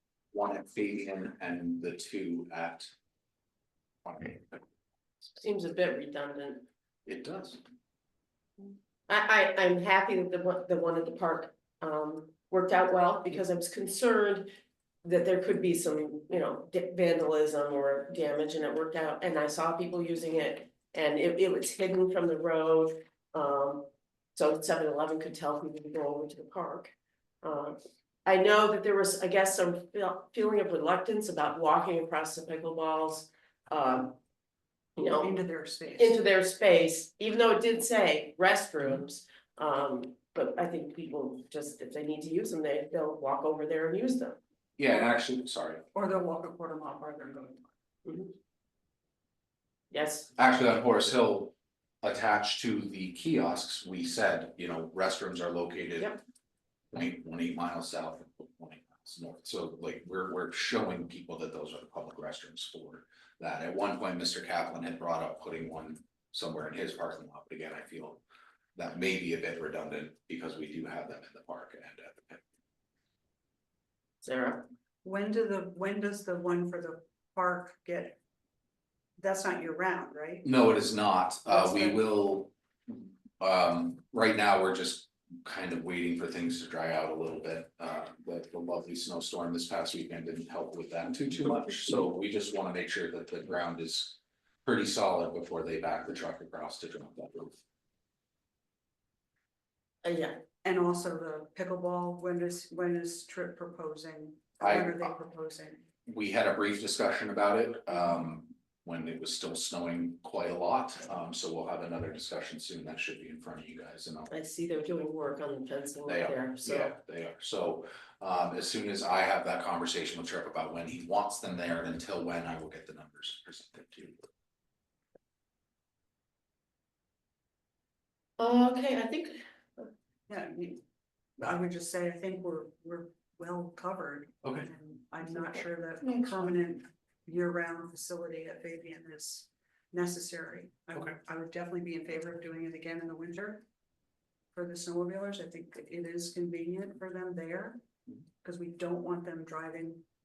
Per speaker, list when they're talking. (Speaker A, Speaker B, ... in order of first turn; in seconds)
Speaker A: 0.3-2.9, 4.0-4.6, 7.0-7.6, 44.8-45.8, 50.4-56.1, 56.9-68.2, 68.8-72.4, 80.4-97.6, 104.6-105.1, 106.0-114.3, 116.0-124.3
Speaker B: 5.4-6.6, 9.1-14.5, 15.0-34.2, 35.0-35.4, 36.0-44.4, 48.0-48.3, 49.9-50.3, 74.2-74.7, 100.0-100.4, 114.3-116.9, 128.4-129.9
Speaker C: 35.2-36.1, 45.9-47.7, 75.0-78.2, 79.2-80.5, 81.5-82.0, 100.6-105.8, 130.3-130.8, 131.4-143.6, 144.5-147.8, 148.4-150.0